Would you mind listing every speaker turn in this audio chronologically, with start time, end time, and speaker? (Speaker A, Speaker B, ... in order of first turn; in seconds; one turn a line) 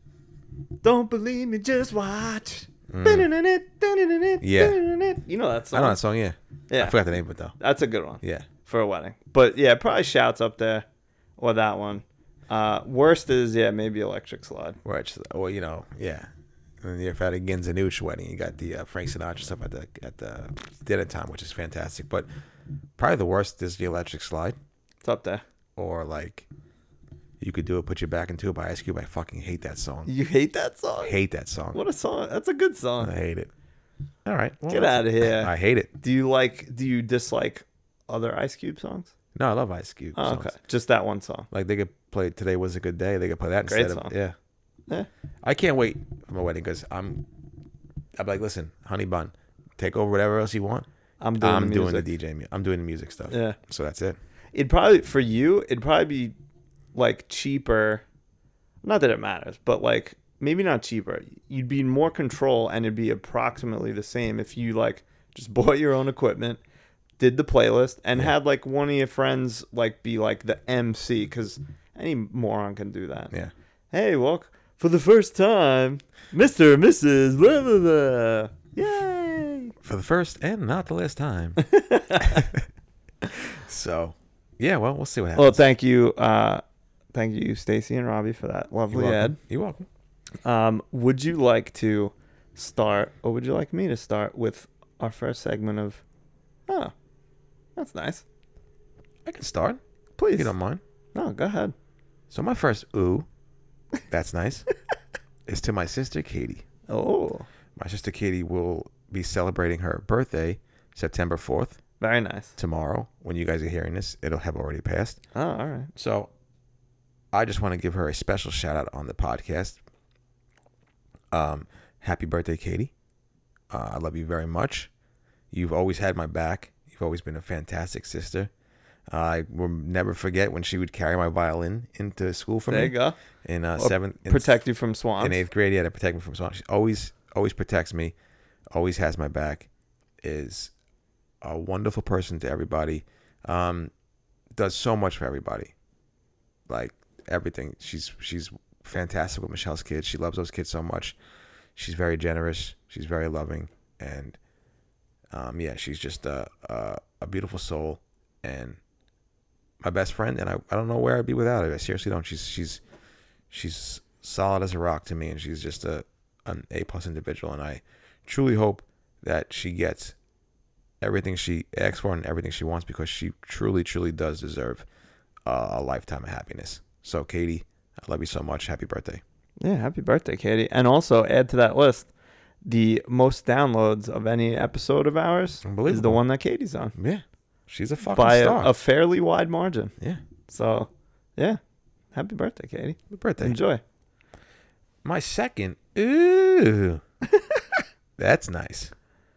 Speaker A: 0.8-6.0
Speaker B: 2.9-3.3
Speaker B: 4.4-4.8
Speaker B: 5.7-7.6
Speaker A: 6.7-7.0
Speaker A: 7.6-10.8
Speaker B: 8.2-8.5
Speaker A: 11.4-14.8
Speaker B: 14.8-16.3
Speaker B: 16.8-22.3
Speaker B: 23.0-24.6
Speaker A: 25.0-25.4
Speaker B: 25.8-26.5
Speaker B: 27.4-30.1
Speaker A: 30.1-31.1
Speaker B: 31.0-31.8
Speaker A: 31.7-33.1
Speaker B: 33.0-33.5
Speaker B: 34.2-35.9
Speaker A: 34.7-39.1
Speaker B: 39.3-40.5
Speaker A: 40.1-41.5
Speaker B: 41.5-44.3
Speaker A: 43.7-44.1
Speaker B: 45.4-47.3
Speaker B: 48.1-50.9
Speaker A: 51.2-52.1
Speaker B: 51.4-54.2
Speaker A: 53.3-53.6
Speaker A: 54.5-56.3
Speaker A: 56.9-58.0
Speaker A: 58.8-66.6
Speaker A: 67.2-73.3
Speaker A: 73.9-79.7
Speaker B: 79.8-81.6
Speaker A: 81.6-82.4
Speaker B: 82.2-82.6
Speaker B: 83.3-85.6
Speaker A: 85.3-86.6
Speaker A: 87.1-89.4
Speaker B: 88.9-89.9
Speaker A: 90.4-96.0
Speaker A: 96.7-96.9
Speaker A: 97.8-98.2
Speaker B: 99.2-99.8
Speaker A: 100.2-100.5
Speaker B: 100.3-100.8
Speaker A: 101.1-101.7
Speaker B: 102.3-103.3
Speaker B: 104.1-104.7
Speaker B: 105.5-106.6
Speaker A: 106.9-107.5
Speaker B: 107.8-111.8
Speaker A: 112.0-112.5
Speaker B: 112.6-115.2
Speaker A: 115.3-115.9
Speaker B: 115.9-116.3
Speaker B: 117.3-119.8
Speaker B: 121.3-122.9
Speaker B: 123.7-124.9
Speaker B: 125.5-128.5
Speaker B: 129.1-134.6
Speaker A: 132.7-133.2
Speaker A: 133.8-135.4
Speaker B: 135.2-138.1
Speaker B: 138.7-139.7
Speaker B: 140.2-140.7
Speaker B: 141.4-143.9
Speaker B: 144.5-145.7
Speaker B: 146.7-151.2
Speaker B: 151.8-154.4
Speaker B: 155.3-158.8
Speaker B: 159.8-162.8
Speaker B: 163.5-170.1
Speaker B: 171.0-174.8
Speaker B: 175.4-179.2
Speaker A: 179.6-182.1
Speaker A: 182.6-186.9
Speaker B: 185.6-186.2
Speaker B: 186.9-188.7
Speaker A: 188.1-189.9
Speaker A: 190.5-191.6
Speaker A: 192.1-193.8
Speaker B: 193.1-193.6
Speaker B: 195.0-197.0
Speaker B: 198.2-198.9